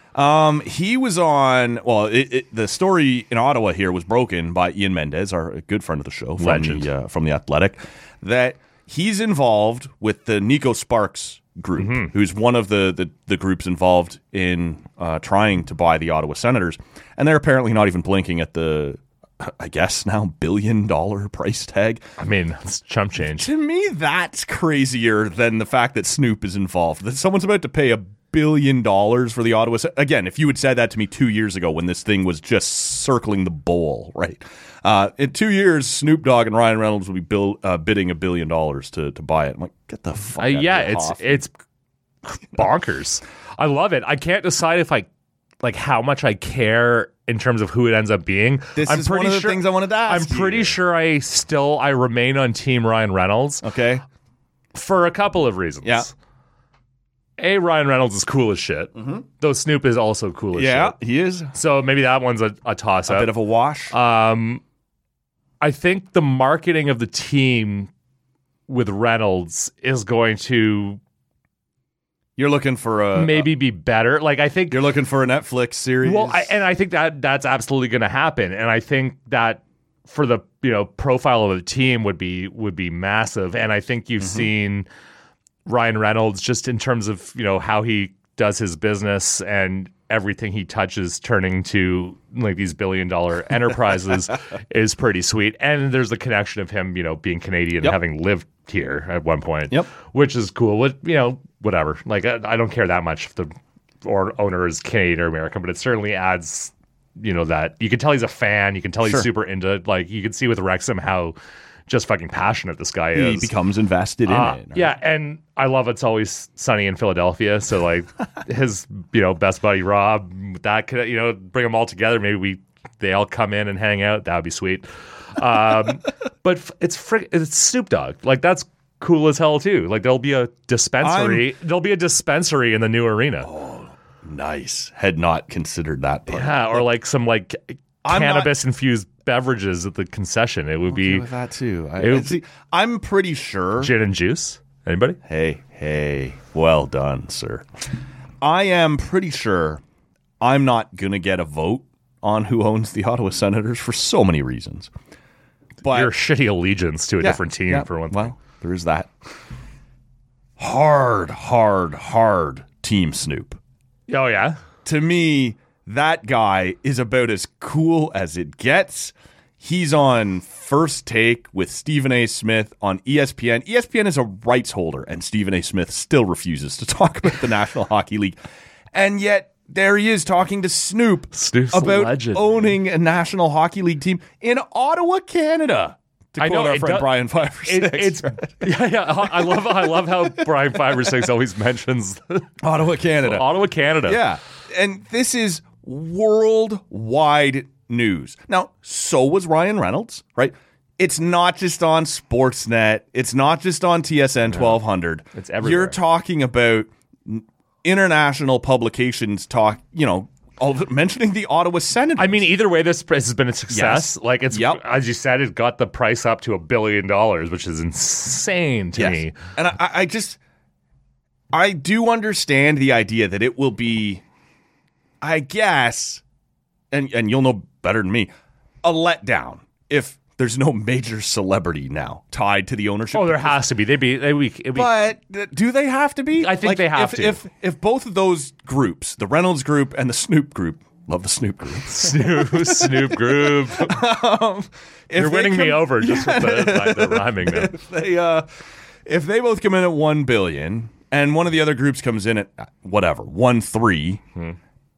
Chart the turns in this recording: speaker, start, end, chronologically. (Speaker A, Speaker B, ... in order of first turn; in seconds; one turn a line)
Speaker A: 0.1-22.0
Speaker B: 6.4-6.8
Speaker B: 11.8-12.1
Speaker B: 22.2-23.5
Speaker A: 23.2-41.4
Speaker B: 40.4-41.5
Speaker B: 42.2-45.1
Speaker B: 45.6-53.6
Speaker A: 48.7-50.8
Speaker A: 53.6-54.0
Speaker B: 54.7-56.1
Speaker A: 55.8-56.1
Speaker B: 57.4-60.9
Speaker A: 59.0-59.2
Speaker A: 60.5-61.5
Speaker B: 61.5-63.3
Speaker A: 63.1-63.9
Speaker B: 63.9-64.6
Speaker B: 65.6-67.9
Speaker B: 68.7-71.0
Speaker A: 72.4-73.5
Speaker B: 73.1-74.8
Speaker A: 74.7-76.5
Speaker B: 76.0-84.9
Speaker A: 84.2-84.5
Speaker B: 85.7-111.3
Speaker B: 111.9-113.5
Speaker A: 113.1-114.9
Speaker B: 114.3-133.5
Speaker A: 131.0-131.5
Speaker A: 133.4-136.8
Speaker B: 136.3-141.3
Speaker A: 138.0-138.5
Speaker A: 140.9-143.9
Speaker B: 142.0-142.4
Speaker B: 143.8-145.2
Speaker A: 145.2-147.7
Speaker A: 148.4-149.8
Speaker A: 150.4-154.9
Speaker A: 155.8-156.1
Speaker B: 155.9-158.3
Speaker A: 157.2-159.1
Speaker A: 160.6-163.6
Speaker B: 164.1-164.6
Speaker A: 164.8-178.3
Speaker A: 178.9-188.7
Speaker B: 181.3-182.7
Speaker B: 186.4-192.5
Speaker A: 189.4-190.1
Speaker A: 192.6-193.5
Speaker B: 193.2-194.2
Speaker A: 194.0-212.5
Speaker B: 205.3-206.0
Speaker B: 212.2-219.4
Speaker A: 213.7-214.8
Speaker A: 218.9-220.4
Speaker A: 221.5-224.2
Speaker A: 225.2-226.2
Speaker A: 226.9-228.3
Speaker A: 228.8-233.6
Speaker B: 233.1-234.9
Speaker A: 234.7-248.5
Speaker B: 236.4-237.4
Speaker B: 241.8-243.9
Speaker B: 245.1-247.8
Speaker A: 249.1-254.2